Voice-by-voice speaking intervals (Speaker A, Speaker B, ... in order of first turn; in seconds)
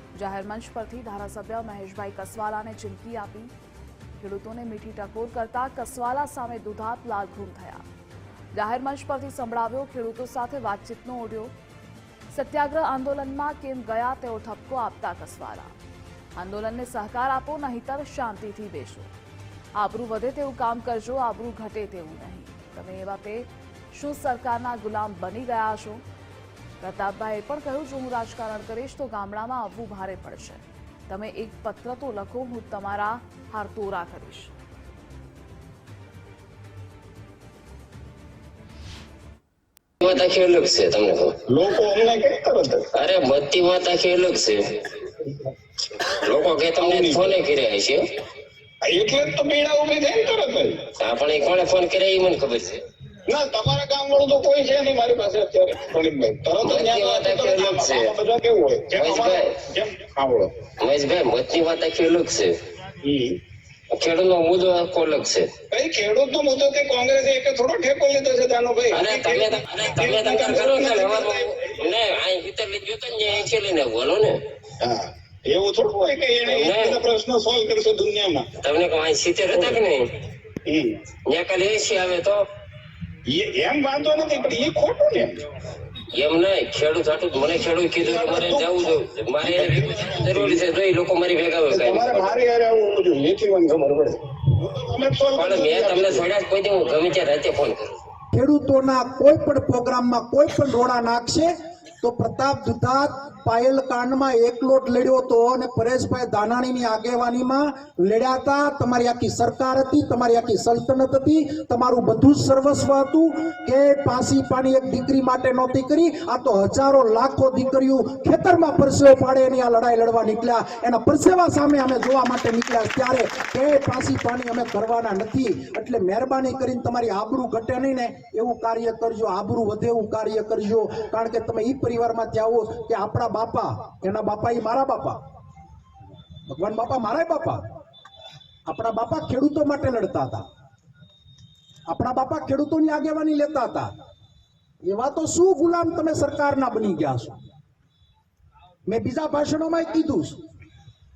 Speaker A: 0.1-3.5, 4.2-7.8, 8.5-11.5, 12.3-15.7, 16.4-19.1, 19.8-26.0, 26.8-34.5
Speaker B: 40.0-41.3, 42.9-44.7, 46.0-48.0, 51.0-52.8, 56.6-58.1, 58.9-59.5, 60.8-62.5, 63.9-65.5, 68.9-74.3, 76.5-77.0, 78.6-80.0, 81.3-82.4, 86.1-92.3, 95.3-97.9
Speaker C: 41.5-42.9, 46.8-47.4, 48.8-50.9, 53.2-60.5, 63.0-63.4, 65.7-71.6, 74.8-78.5, 80.6-81.0, 83.2-85.5, 88.0-90.6, 91.7-96.3
Speaker D: 98.3-101.5, 102.0-135.2, 136.5-137.6, 138.7-140.4, 141.9-143.9, 144.9-147.3, 148.8-150.3